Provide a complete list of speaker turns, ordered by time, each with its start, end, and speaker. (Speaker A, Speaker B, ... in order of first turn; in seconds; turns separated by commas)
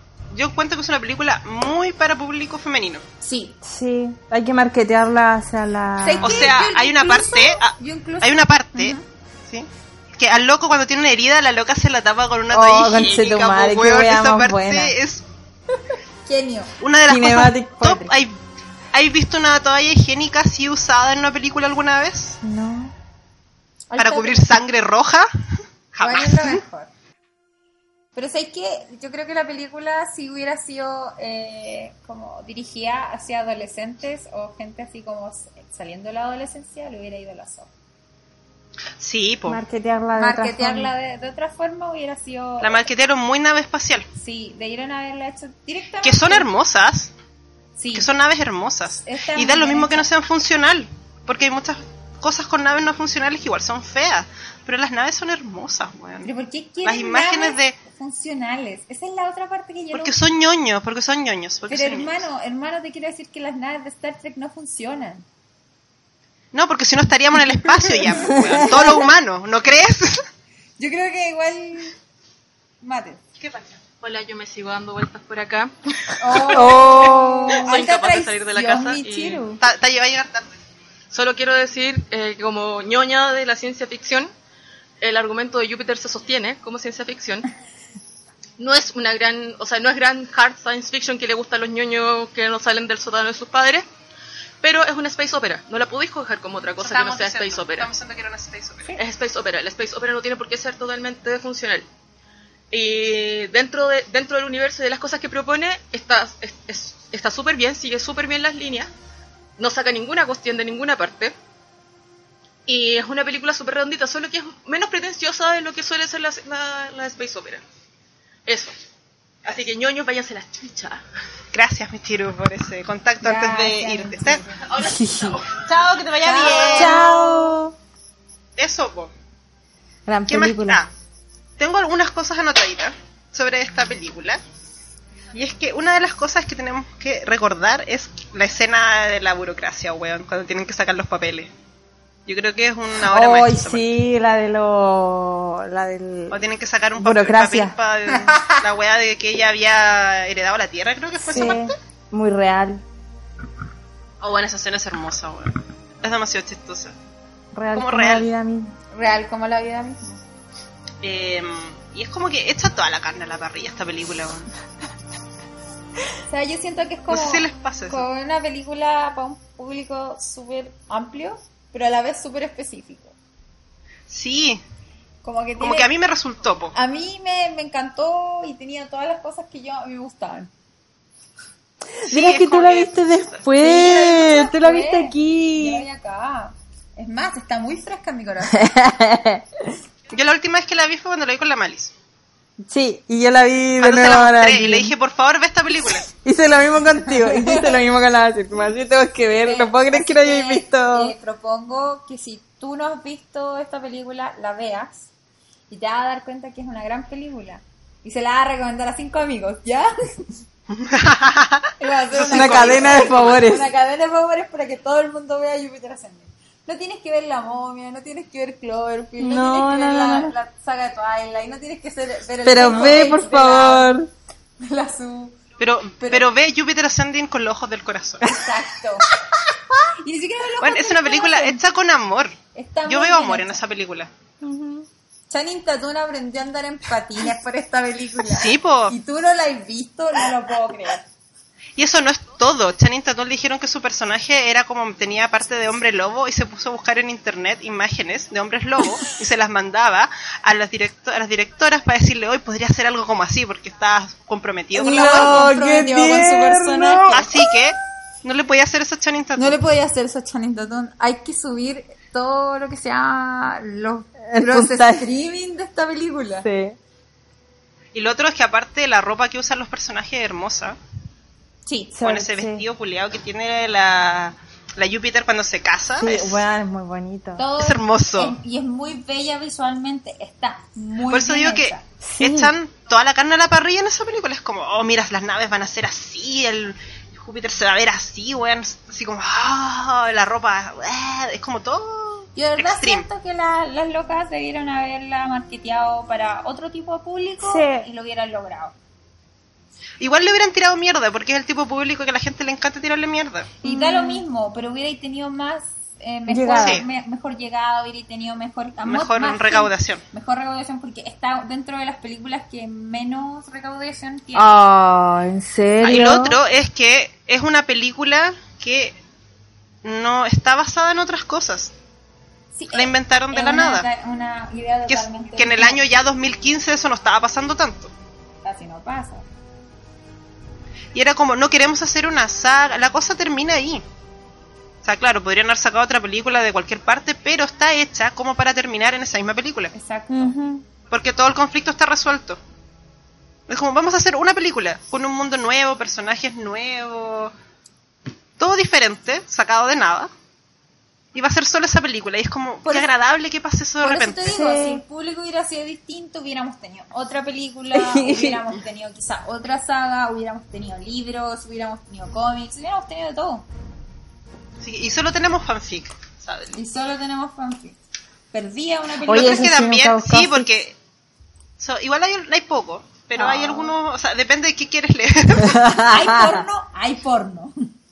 Speaker A: 0.3-3.0, Speaker B: 3.2-3.6, Speaker C: 3.6-6.5, Speaker B: 6.0-9.1, Speaker A: 6.2-15.2, Speaker C: 12.5-15.0, Speaker B: 16.3-16.7, Speaker A: 16.8-18.4, Speaker C: 17.1-18.1, Speaker A: 18.9-22.4, Speaker C: 22.4-22.9, Speaker B: 23.9-24.6, Speaker A: 24.0-25.3, Speaker A: 25.9-26.6, Speaker B: 26.0-26.9, Speaker B: 28.2-37.7, Speaker A: 39.0-39.6, Speaker C: 39.5-40.9, Speaker B: 40.2-42.9, Speaker A: 42.6-44.1, Speaker B: 44.1-46.5, Speaker A: 46.0-47.1, Speaker B: 47.8-48.1, Speaker A: 47.9-56.3, Speaker B: 49.0-50.1, Speaker B: 56.2-60.2, Speaker A: 56.9-57.8, Speaker A: 59.9-62.2, Speaker B: 61.7-65.2, Speaker A: 66.5-70.2, Speaker B: 67.8-68.9, Speaker C: 68.3-69.0, Speaker B: 70.8-72.0, Speaker B: 72.8-73.2, Speaker A: 73.4-73.8, Speaker D: 74.0-79.4, Speaker B: 76.2-79.6, Speaker C: 76.3-77.8, Speaker A: 79.6-80.5, Speaker D: 81.1-84.3, Speaker D: 85.0-87.5, Speaker D: 88.6-93.8, Speaker D: 94.6-97.9, Speaker A: 96.8-99.0, Speaker D: 99.0-101.8, Speaker D: 102.7-108.9, Speaker D: 109.6-111.3, Speaker D: 112.7-117.6, Speaker D: 118.5-118.7, Speaker D: 119.5-121.0, Speaker A: 121.5-124.4, Speaker B: 123.2-124.8, Speaker D: 124.7-125.6, Speaker C: 124.8-125.4, Speaker A: 125.5-127.0, Speaker B: 126.2-127.6, Speaker C: 126.6-127.7, Speaker A: 128.6-129.1, Speaker C: 130.1-130.8, Speaker A: 130.3-130.9, Speaker A: 131.6-134.4, Speaker A: 135.3-141.5, Speaker A: 142.3-143.9, Speaker C: 143.0-146.4, Speaker A: 146.3-151.7, Speaker C: 147.0-147.8, Speaker B: 148.2-148.6, Speaker C: 151.2-152.8, Speaker B: 151.3-151.6, Speaker A: 154.2-156.9, Speaker C: 157.5-158.8, Speaker A: 157.7-158.3, Speaker B: 158.9-160.2, Speaker A: 161.0-164.5, Speaker B: 166.3-173.1, Speaker A: 167.1-168.1, Speaker A: 174.1-174.6, Speaker B: 175.2-175.9, Speaker A: 175.6-176.7, Speaker B: 176.7-180.5, Speaker C: 181.9-185.9, Speaker A: 182.1-183.4, Speaker B: 183.6-188.7, Speaker C: 188.5-189.7, Speaker A: 190.1-191.9, Speaker C: 192.6-194.9, Speaker A: 193.8-196.1, Speaker C: 196.1-201.1, Speaker B: 197.1-197.8, Speaker B: 199.4-205.1, Speaker B: 205.7-209.9, Speaker A: 210.7-213.5, Speaker B: 211.8-223.9, Speaker C: 212.3-213.7, Speaker C: 219.2-220.3, Speaker C: 222.4-224.1, Speaker A: 222.6-223.1, Speaker B: 224.6-225.4, Speaker A: 225.6-228.2, Speaker B: 226.0-226.3, Speaker B: 228.2-229.1, Speaker C: 228.2-228.5, Speaker B: 230.0-231.6, Speaker A: 230.6-234.1, Speaker B: 232.5-233.6, Speaker C: 234.4-234.9, Speaker B: 235.3-241.1, Speaker A: 238.2-238.9, Speaker A: 241.8-255.5, Speaker B: 254.7-257.3, Speaker C: 254.8-257.5, Speaker A: 257.1-259.6, Speaker B: 259.4-266.5, Speaker C: 264.3-265.1, Speaker C: 266.4-266.8, Speaker A: 267.9-270.8, Speaker B: 271.7-271.9, Speaker C: 271.9-272.7, Speaker A: 272.0-276.4, Speaker C: 275.9-277.5, Speaker B: 277.4-281.8, Speaker A: 277.6-278.4, Speaker A: 281.1-293.1, Speaker C: 282.0-282.5, Speaker B: 292.4-298.8, Speaker C: 297.4-297.9, Speaker A: 300.0-303.5, Speaker B: 303.6-314.6, Speaker C: 303.6-304.2, Speaker C: 306.3-306.8, Speaker A: 306.5-306.9, Speaker A: 308.8-310.0, Speaker C: 314.3-316.4, Speaker A: 315.8-319.0, Speaker A: 319.8-321.7, Speaker B: 322.5-325.8, Speaker A: 322.7-323.9, Speaker A: 324.9-327.9, Speaker B: 328.4-329.3, Speaker A: 330.9-333.8, Speaker A: 334.8-339.7, Speaker B: 339.7-340.4, Speaker C: 340.1-340.6, Speaker A: 340.9-342.4, Speaker A: 343.5-347.3, Speaker A: 348.4-350.1, Speaker A: 351.1-354.4, Speaker B: 353.8-363.5, Speaker C: 354.3-354.8, Speaker C: 357.7-358.4, Speaker A: 364.6-366.6, Speaker B: 366.5-367.8, Speaker B: 368.3-369.5, Speaker C: 369.1-370.6, Speaker A: 369.1-370.8, Speaker A: 371.6-375.7, Speaker C: 373.1-373.8, Speaker C: 375.4-376.4, Speaker B: 375.8-377.6